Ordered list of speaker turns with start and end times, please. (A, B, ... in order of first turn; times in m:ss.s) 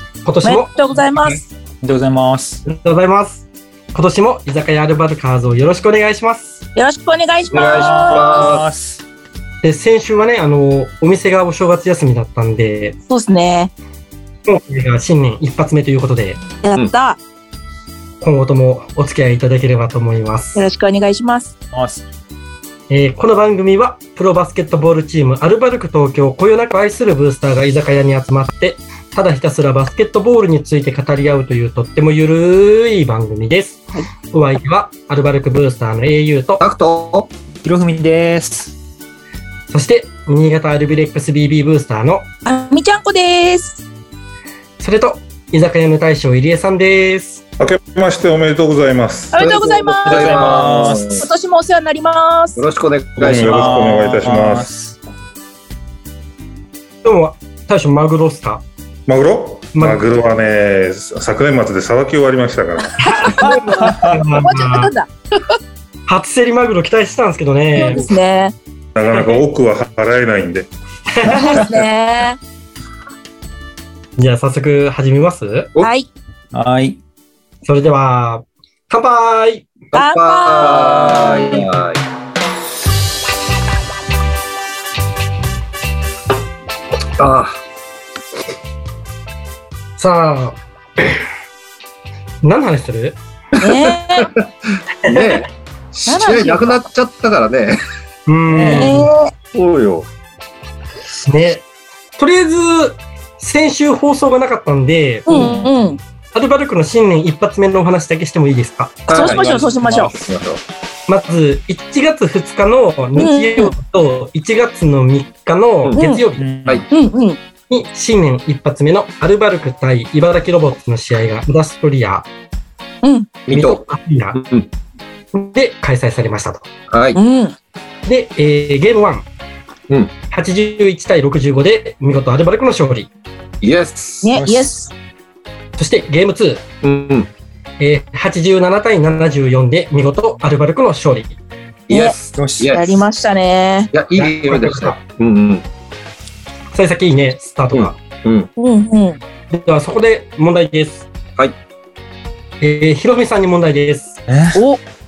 0:00.2-0:01.4 A
0:00.4-0:01.5 B
0:01.8-0:02.6 C
0:02.6-0:06.6 A
0:06.8-0:08.5 B
0:07.5-0:08.7 D
0:07.5-0:09.0 C
0:09.6-0:13.0 A
0:13.1-0:13.7 B
0:14.4-0:16.4 A
0:16.6-0:17.2 B
0:18.2-0:20.7 A
0:20.5-0:21.5 B
0:21.7-0:22.0 C
0:22.9-0:36.6 A
0:36.6-0:37.3 D
0:37.6-0:38.7 C
0:39.7-0:42.2 A
0:42.4-0:43.8 B
0:44.8-0:47.4 A
0:47.6-0:49.4 E
0:49.3-0:52.6 B
0:49.4-0:51.3 D
0:50.0-0:51.2 C
0:52.6-0:53.9 D
0:53.2-0:55.0 C
0:53.2-0:54.7 E
0:57.0-0:58.6 A
0:59.1-1:03.1 E
0:59.7-1:00.1 A
1:03.0-1:05.6 B
1:03.0-1:04.9 A
1:03.4-1:04.2 C
1:06.1-1:08.0 A
1:07.8-1:08.5 B
1:08.9-1:10.7 E
1:09.1-1:09.4 A
1:11.1-1:11.6 A
1:11.3-1:12.4 B
1:14.2-1:15.7 A
1:15.8-1:16.1 B
1:16.5-1:17.0 C
1:17.6-1:19.6 A
1:19.9-1:22.0 D
1:19.9-1:21.6 B
1:27.2-1:27.6 D
1:30.0-1:31.1 A
1:32.4-1:33.2 A
1:33.6-1:34.3 B
1:33.6-1:37.8 D
1:35.1-1:35.4 A
1:36.0-1:36.8 B
1:38.3-1:39.1 A
1:38.5-1:39.1 C
1:38.7-1:39.3 B
1:39.5-1:40.1 D
1:41.2-1:41.6 A
1:42.2-1:45.3 A
1:45.3-1:46.0 B
1:45.3-1:45.7 C
1:46.3-1:49.2 A
1:49.1-1:50.6 D
1:49.1-1:50.1 B
1:49.2-1:50.1 C
1:51.1-1:56.4 A
1:53.2-1:53.7 B
1:55.9-1:56.2 B
1:56.4-1:56.9 C
1:56.9-1:57.4 B
1:57.7-2:02.3 A
2:03.0-2:03.3 B
2:03.5-2:03.8 D
2:03.5-2:04.4 A
2:04.3-2:04.7 D
2:05.3-2:06.6 A
2:06.9-2:07.2 D
2:07.1-2:07.5 B
2:08.0-2:09.3 A
2:10.3-2:13.1 A
2:13.6-2:14.3 D
2:14.2-2:14.9 B
2:14.3-2:14.7 C
2:15.8-2:16.6 A
2:16.8-2:17.3 D
2:17.8-2:21.4 A
2:21.9-2:23.0 D
2:22.4-2:22.8 C
2:22.7-2:23.9 B
2:23.9-2:25.6 D
2:24.1-2:25.0 A
2:26.7-2:28.0 A
2:27.7-2:28.5 D
2:28.6-2:29.2 B
2:29.5-2:31.1 A
2:32.6-2:34.2 A
2:34.3-2:34.6 C
2:34.5-2:34.8 B